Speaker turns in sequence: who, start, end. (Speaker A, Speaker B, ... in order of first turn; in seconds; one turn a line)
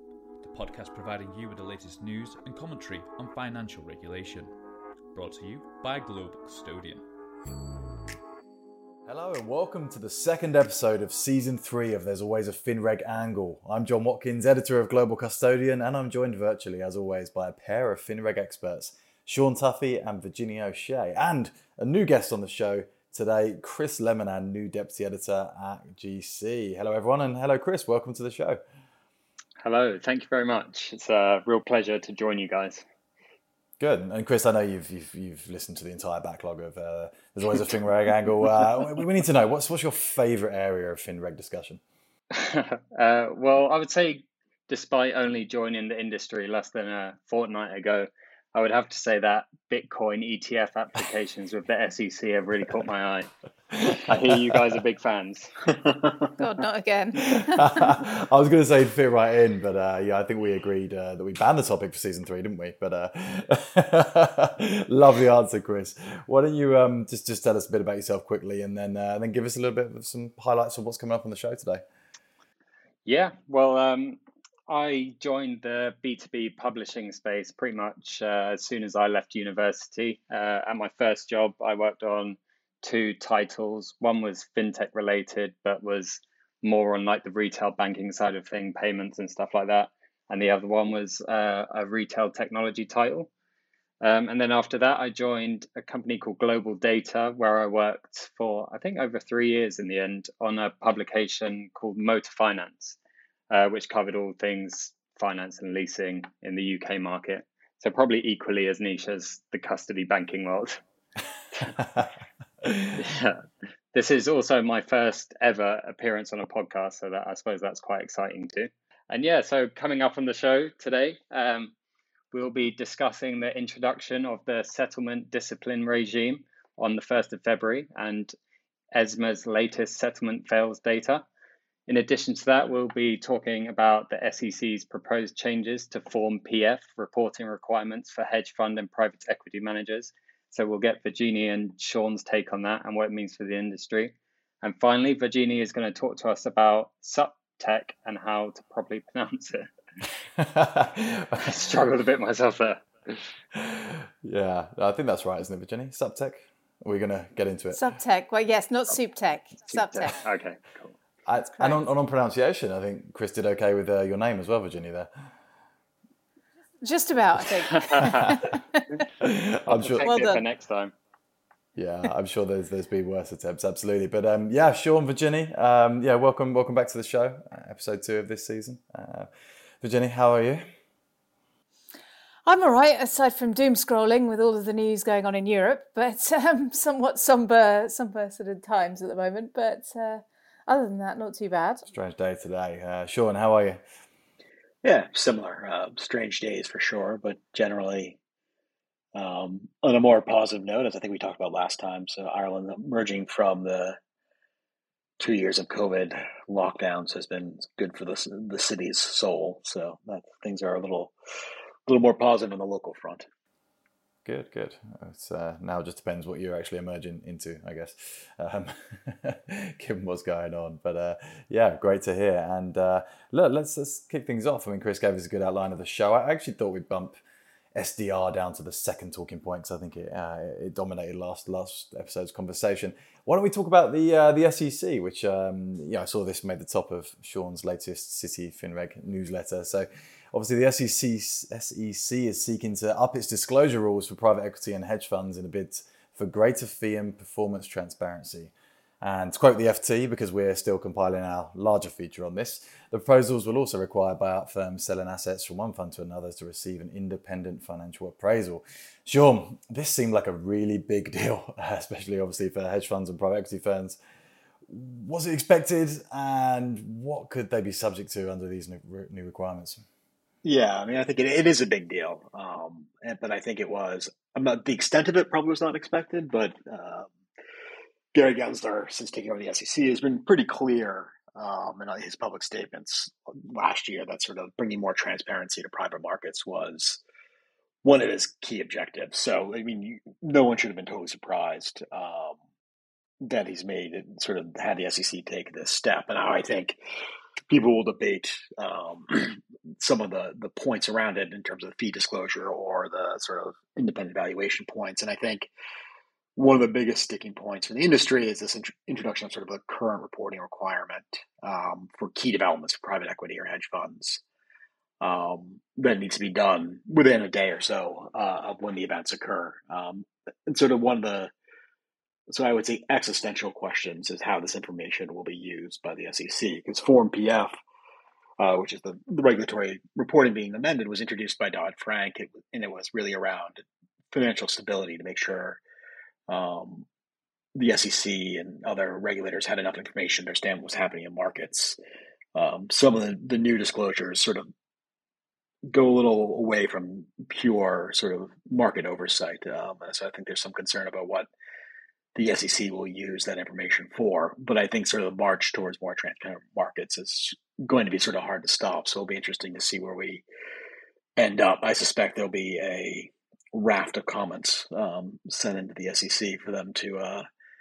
Speaker A: 0.4-4.5
Speaker A: 5.1-7.0
Speaker B: 9.1-28.6
Speaker C: 29.6-32.8
Speaker B: 33.8-41.8
Speaker C: 42.4-55.6
Speaker D: 56.4-58.0
Speaker B: 57.5-71.8
Speaker C: 73.0-93.3
Speaker C: 94.0-103.0
Speaker C: 103.5-110.8
Speaker C: 111.5-111.8
Speaker C: 113.0-113.4
Speaker C: 113.9-121.7
Speaker C: 122.3-128.3
Speaker C: 128.9-131.2
Speaker C: 131.9-149.7
Speaker B: 150.4-151.4
Speaker C: 151.4-152.8
Speaker B: 153.5-157.8
Speaker D: 157.7-160.2
Speaker C: 159.7-161.0
Speaker B: 161.2-165.1
Speaker D: 161.5-161.8
Speaker D: 166.8-168.8
Speaker C: 167.9-168.1
Speaker B: 168.2-168.4
Speaker B: 169.2-170.1
Speaker C: 169.7-170.9
Speaker D: 170.0-170.4
Speaker B: 171.8-179.3
Speaker B: 179.8-180.7
Speaker D: 182.4-191.8
Speaker B: 191.9-193.8
Speaker E: 194.8-198.2
Speaker E: 199.1-204.0
Speaker E: 205.2-211.1
Speaker E: 211.9-213.2
Speaker B: 214.2-227.2
Speaker B: 227.7-264.0
Speaker B: 264.7-269.8
Speaker E: 270.4-277.1
Speaker E: 278.1-287.0
Speaker E: 287.8-292.4
Speaker E: 293.2-296.8
Speaker E: 297.5-305.5
Speaker E: 306.4-314.2
Speaker E: 315.0-321.3
Speaker E: 322.3-327.5
Speaker E: 328.4-335.6
Speaker E: 336.3-336.9
Speaker E: 337.6-341.8
Speaker E: 342.3-344.5
Speaker E: 345.7-351.3
Speaker E: 352.1-360.2
Speaker E: 361.2-367.2